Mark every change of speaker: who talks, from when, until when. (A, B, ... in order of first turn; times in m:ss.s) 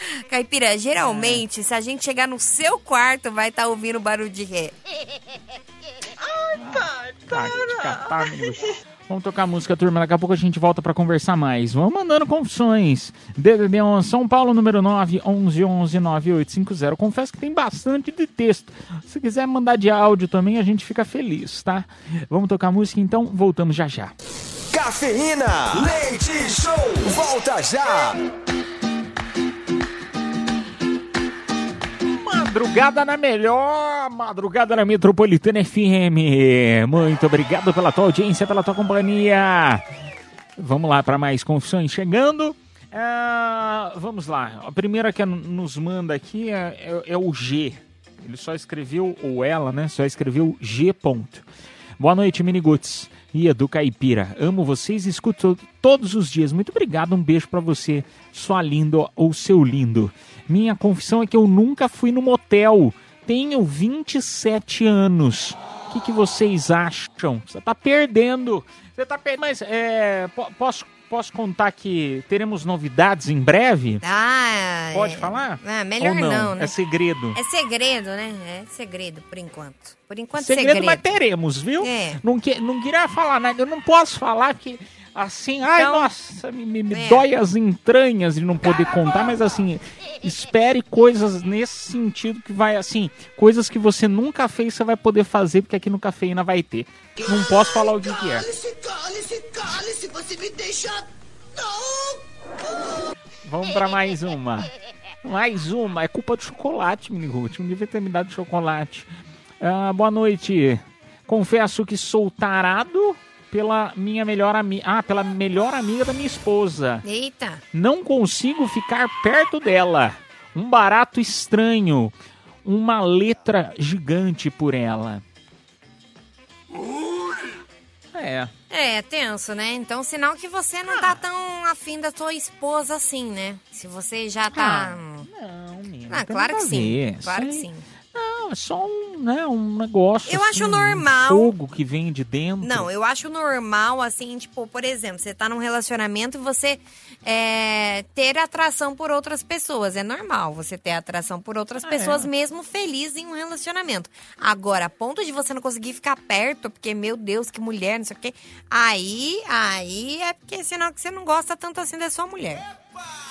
0:00.2-0:04.7 A
0:01.0-0:01.4 B
0:06.6-0:24.1 B
0:24.7-0:28.2 C
0:32.1-0:39.8 B
0:40.6-0:51.4 B
0:52.0-1:14.0 B
1:14.0-1:16.7 A
1:14.9-1:17.4 B
1:17.4-1:21.1 A
1:20.4-1:38.5 B
1:21.8-1:22.2 A
1:25.8-1:26.1 A
1:26.9-1:27.2 A
1:38.9-1:40.8 D
1:43.4-1:44.7 B
1:45.2-1:49.1 B
1:49.6-1:57.0 B
1:57.0-1:57.6 A
1:57.7-2:02.1 B
2:02.6-2:05.2 B
2:08.1-2:08.5 B
2:08.7-2:15.3 A
2:10.9-2:11.2 B
2:14.5-2:22.9 B
2:16.1-2:17.8 A
2:20.3-2:21.5 A
2:22.6-2:42.7 A
2:31.8-2:32.3 B